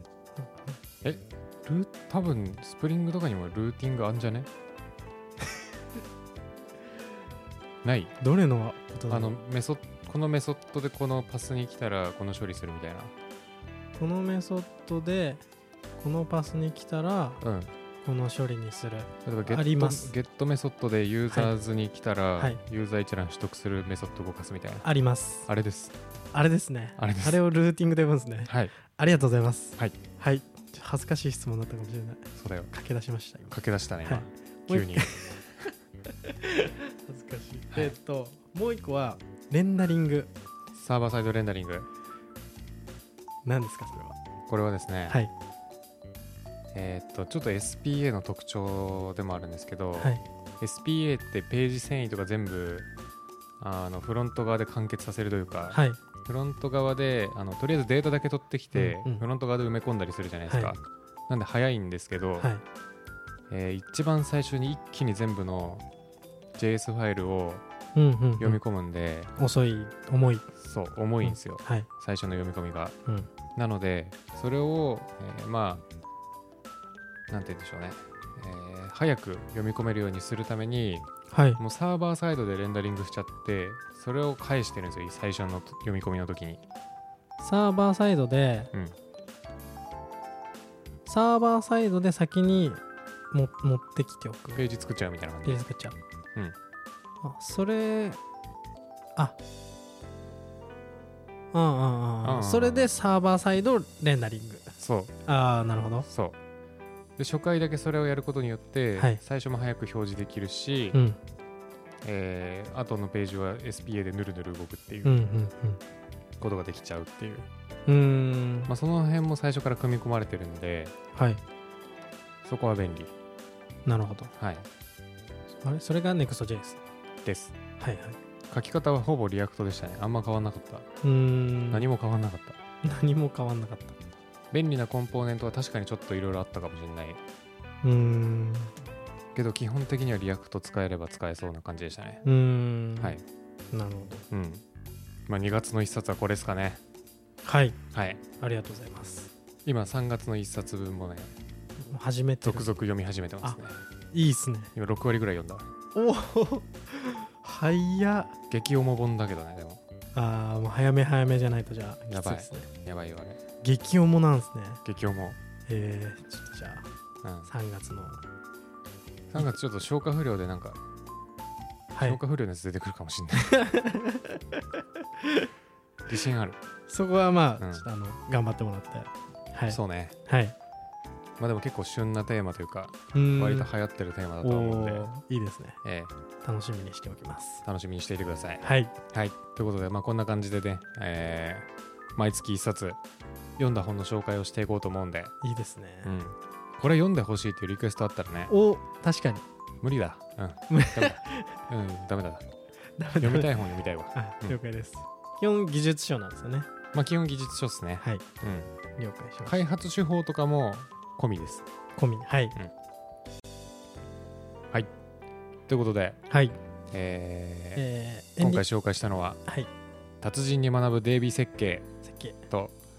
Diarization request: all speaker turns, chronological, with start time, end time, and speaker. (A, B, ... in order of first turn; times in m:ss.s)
0:00.4-0:00.8 A
0:01.0-0:04.5 B
0:07.8-0:08.1 B
0:08.2-0:09.3 A
0:09.1-0:13.1 B
0:14.0-0:15.4 A
0:16.0-0:17.4 A
0:17.4-0:17.7 B
0:18.0-0:20.1 A
0:19.2-0:24.8 B
0:24.8-0:25.5 A
0:25.4-0:25.9 B
0:26.3-0:35.7 A
0:27.0-0:27.4 B
0:28.4-0:28.7 B
0:32.4-0:32.7 B
0:33.5-0:35.4 B
0:36.2-0:40.3 A
0:40.7-0:41.9 B
0:43.4-0:44.2 A
0:44.5-0:45.2 B
0:46.7-0:52.9 B
0:50.0-0:50.2 A
0:53.6-1:02.5 B
0:55.7-0:56.0 A
0:58.7-0:59.2 A
1:00.5-1:00.8 A
1:02.4-1:02.6 A
1:03.5-1:05.8 B
1:06.6-1:07.6 B
1:07.9-1:08.6 A
1:08.4-1:09.3 B
1:09.4-1:10.5 A
1:10.6-1:13.0 B
1:11.2-1:11.9 A
1:13.5-1:15.8 B
1:17.3-1:26.6 B
1:21.3-1:21.6 A
1:27.4-1:28.7 A
1:31.0-1:32.8 A
1:33.3-1:34.6 A
1:34.5-1:35.6 B
1:35.4-1:36.0 A
1:37.2-1:38.2 A
1:41.5-1:46.1 A
1:42.2-1:42.9 B
1:44.8-1:45.2 B
1:46.1-1:46.4 B
1:47.2-1:51.0 B
1:50.9-1:51.2 A
1:52.0-1:55.3 B
1:55.0-1:55.8 A
1:56.4-1:57.5 B
1:57.9-1:58.7 A
1:58.7-2:00.9 B
2:01.1-2:01.4 A
2:02.4-2:03.1 B
2:03.8-2:04.3 A
2:04.4-2:04.7 B
2:05.6-2:06.8 A
2:07.2-2:07.5 B
2:07.8-2:08.2 A
2:08.5-2:10.9 B
2:11.0-2:11.8 A
2:11.7-2:12.6 B
2:12.8-2:14.0 A
2:14.5-2:17.2 B
2:17.8-2:18.7 A
2:19.3-2:22.2 B
2:22.2-2:23.2 A
2:23.0-2:23.2 B
2:23.7-2:24.2 A
2:24.3-2:24.6 B
2:25.3-2:26.8 B
2:27.4-2:27.8 A
2:27.9-2:28.2 B
2:28.4-2:29.3 A
2:29.6-2:31.3 B
2:31.8-2:32.6 A
2:32.4-2:33.8 B
2:34.1-2:34.7 A
2:34.7-2:35.7 B
2:35.9-2:38.3 A
2:38.5-2:39.8 B
2:40.1-2:42.7 A
2:42.1-2:43.4 B
2:43.6-2:44.8 A
2:44.8-2:45.4 B
2:45.7-2:46.9 A
2:47.2-2:47.5 B
2:47.4-2:48.2 A
2:49.3-2:50.8 B
2:51.9-2:52.2 A
2:52.0-2:53.6 B
2:53.4-2:54.6 A
2:55.2-2:55.5 A
2:56.1-2:56.6 B
2:56.9-3:00.5 A
2:57.6-2:57.8 B
2:59.7-3:00.2 B
3:01.4-3:05.1 B
3:03.1-3:03.7 A
3:04.4-3:05.8 A
3:05.8-3:06.1 B
3:06.4-3:07.6 A
3:07.6-3:13.0 B
3:08.6-3:08.9 A
3:13.6-3:15.3 B
3:15.4-3:16.1 A
3:16.0-3:18.5 B
3:18.5-3:19.4 A
3:19.8-3:22.4 B
3:20.7-3:21.6 A
3:23.0-3:23.6 A
3:23.2-3:24.6 B
3:24.1-3:26.7 A
3:26.9-3:28.7 B
3:29.0-3:29.6 A
3:29.4-3:31.6 B
3:32.0-3:32.6 A
3:35.7-3:36.2 B
3:36.3-3:36.6 A
3:36.9-3:37.8 B
3:37.8-3:38.6 A
3:38.4-3:39.4 B
3:39.4-3:39.7 A
3:40.2-3:41.9 B
3:42.0-3:42.4 A